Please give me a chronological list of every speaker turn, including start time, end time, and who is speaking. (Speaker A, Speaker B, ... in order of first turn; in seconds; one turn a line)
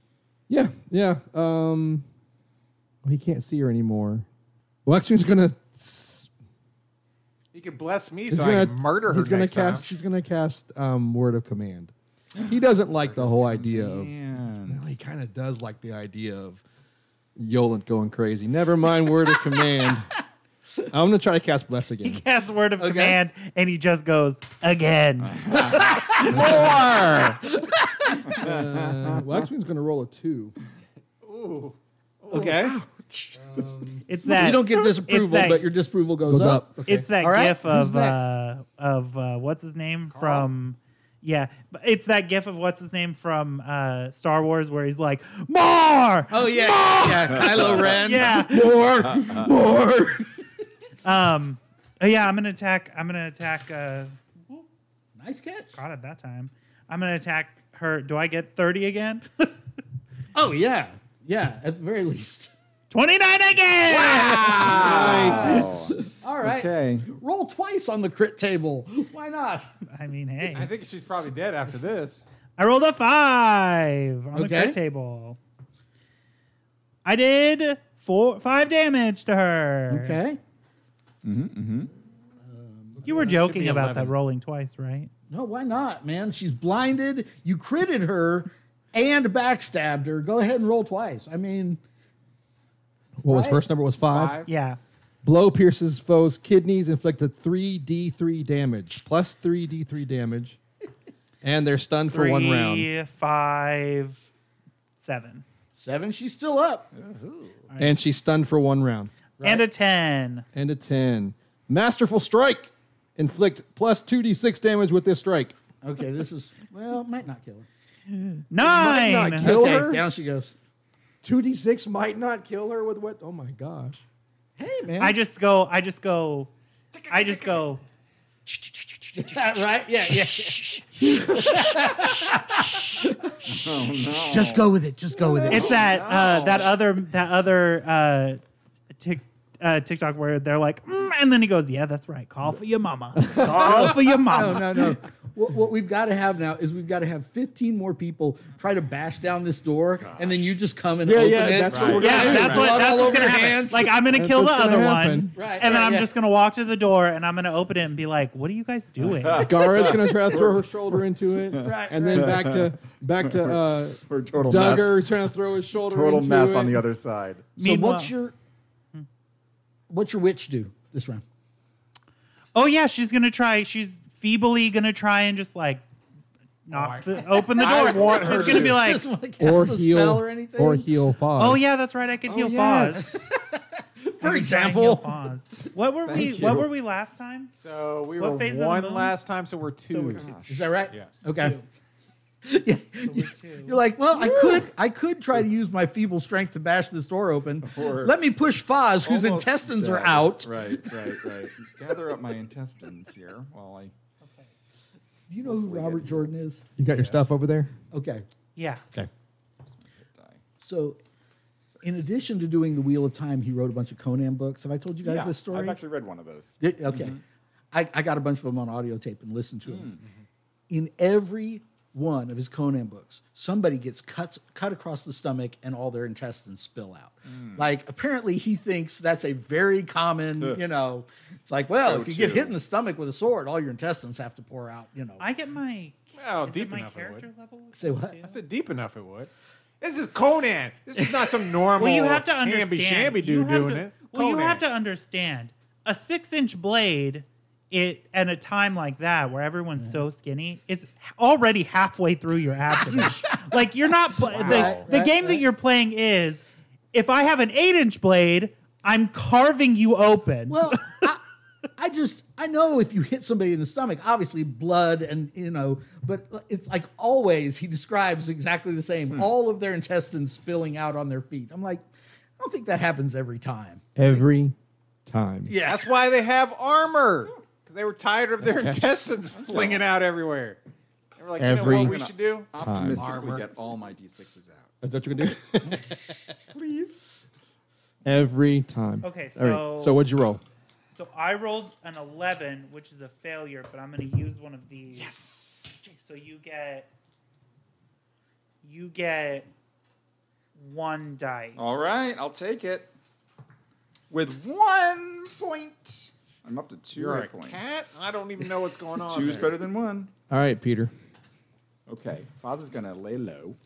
Speaker A: 0.5-2.0
Speaker A: 3.0-4.2
Speaker A: 4.8-6.3
Speaker B: 7.5-9.9
Speaker A: 8.3-14.1
Speaker B: 13.0-13.4
Speaker C: 13.4-14.8
Speaker A: 14.7-16.6
Speaker A: 17.4-20.1
Speaker A: 20.9-22.2
Speaker D: 22.0-25.8
Speaker E: 22.8-23.2
Speaker C: 25.3-27.5
Speaker E: 25.5-28.4
Speaker C: 28.3-29.2
Speaker A: 28.3-30.5
Speaker B: 31.2-32.7
Speaker C: 32.3-33.7
Speaker A: 33.3-34.0
Speaker D: 34.1-35.7
Speaker E: 34.2-38.3
Speaker A: 36.2-37.1
Speaker D: 36.9-46.6
Speaker B: 40.1-40.5
Speaker E: 46.3-50.3
Speaker C: 46.9-48.0
Speaker D: 47.9-48.8
Speaker C: 49.0-49.5
Speaker D: 51.0-54.6
Speaker E: 55.2-55.8
Speaker D: 55.7-59.5
Speaker E: 60.3-62.5
Speaker D: 62.9-65.6
Speaker E: 63.9-69.7
Speaker B: 64.0-65.6
Speaker C: 64.2-67.0
Speaker A: 64.7-65.7
Speaker D: 69.8-70.7
Speaker B: 70.5-72.2
Speaker D: 72.6-75.4
Speaker E: 74.3-74.8
Speaker D: 77.0-80.2
Speaker E: 79.9-80.4
Speaker C: 81.2-81.9
Speaker E: 82.4-83.2
Speaker D: 83.0-85.1
Speaker B: 83.0-84.2
Speaker E: 85.3-91.8
Speaker A: 93.2-94.4
Speaker E: 93.3-93.6
Speaker B: 94.0-94.5
Speaker D: 94.5-94.8
Speaker A: 95.2-100.6
Speaker A: 101.4-102.9
Speaker D: 102.1-104.2
Speaker D: 105.0-105.4
Speaker E: 105.7-107.0
Speaker C: 107.0-107.5
Speaker D: 107.7-108.0
Speaker A: 107.8-109.1
Speaker D: 109.4-110.5
Speaker A: 110.5-115.5
Speaker E: 115.8-117.7
Speaker D: 118.5-119.8
Speaker A: 118.6-120.0
Speaker E: 118.9-120.5
Speaker A: 121.2-124.0
Speaker E: 124.6-125.2
Speaker D: 125.0-126.5
Speaker B: 126.9-127.6
Speaker D: 127.1-127.8
Speaker E: 129.1-135.8
Speaker A: 131.0-131.8
Speaker C: 133.4-136.0
Speaker D: 135.4-138.4
Speaker B: 135.7-136.7
Speaker D: 138.9-144.9
Speaker A: 143.1-143.9
Speaker C: 143.4-144.9
Speaker E: 143.5-153.9
Speaker C: 150.0-150.4
Speaker A: 151.0-152.9
Speaker C: 151.2-153.3
Speaker D: 152.0-159.5
Speaker A: 154.0-155.4
Speaker E: 155.3-156.1
Speaker C: 159.1-160.6
Speaker A: 159.4-166.8
Speaker C: 161.5-162.7
Speaker E: 161.6-162.4
Speaker C: 163.2-165.0
Speaker C: 165.9-167.5
Speaker D: 167.6-168.1
Speaker E: 167.6-168.3
Speaker E: 169.9-171.2
Speaker D: 172.5-175.8
Speaker D: 176.7-179.0
Speaker B: 176.7-178.8
Speaker E: 177.5-180.9
Speaker A: 179.4-181.7
Speaker D: 181.3-183.2
Speaker C: 182.2-183.3
Speaker E: 182.9-185.1
Speaker D: 184.2-187.5
Speaker C: 186.1-186.7
Speaker B: 187.6-190.3
Speaker D: 188.2-189.1
Speaker D: 189.9-190.3
Speaker C: 190.2-190.7
Speaker E: 190.5-191.6
Speaker D: 191.3-191.6
Speaker E: 192.4-200.9
Speaker D: 193.0-193.8
Speaker C: 194.1-194.7
Speaker C: 197.6-198.2
Speaker C: 199.0-203.9
Speaker D: 204.2-204.5
Speaker E: 205.3-206.6
Speaker C: 205.4-206.3
Speaker A: 206.8-207.7
Speaker B: 206.9-207.2
Speaker E: 207.9-208.2
Speaker D: 208.6-208.8
Speaker C: 210.0-210.4
Speaker E: 210.6-211.0
Speaker C: 211.7-211.9
Speaker E: 211.8-215.8
Speaker C: 215.0-217.2
Speaker E: 216.6-217.2
Speaker E: 217.7-220.0
Speaker C: 219.6-220.0
Speaker E: 220.7-235.2
Speaker C: 227.3-227.7
Speaker C: 231.7-232.6
Speaker D: 235.2-238.4
Speaker B: 236.2-237.2
Speaker E: 237.7-238.2
Speaker B: 238.2-244.6
Speaker D: 241.8-261.1
Speaker E: 253.0-253.5
Speaker E: 254.1-255.4
Speaker C: 254.3-254.9
Speaker E: 260.5-261.2
Speaker E: 261.8-271.9
Speaker E: 272.4-273.9
Speaker A: 273.9-274.5
Speaker A: 275.1-275.5
Speaker E: 275.5-275.9
Speaker B: 275.6-280.6
Speaker A: 278.4-278.8
Speaker C: 279.4-279.9
Speaker B: 281.1-283.5
Speaker A: 281.4-282.0
Speaker C: 281.5-284.7
Speaker A: 282.6-283.1
Speaker A: 284.8-286.0
Speaker C: 286.5-287.0
Speaker A: 288.0-290.4
Speaker D: 289.0-290.0
Speaker D: 290.9-295.2
Speaker C: 294.9-295.8
Speaker D: 295.9-296.9
Speaker D: 298.6-299.5
Speaker D: 300.6-301.9
Speaker C: 301.6-302.9
Speaker C: 304.1-307.6
Speaker B: 306.9-309.6
Speaker C: 309.1-310.1
Speaker A: 310.3-310.9
Speaker C: 311.9-313.6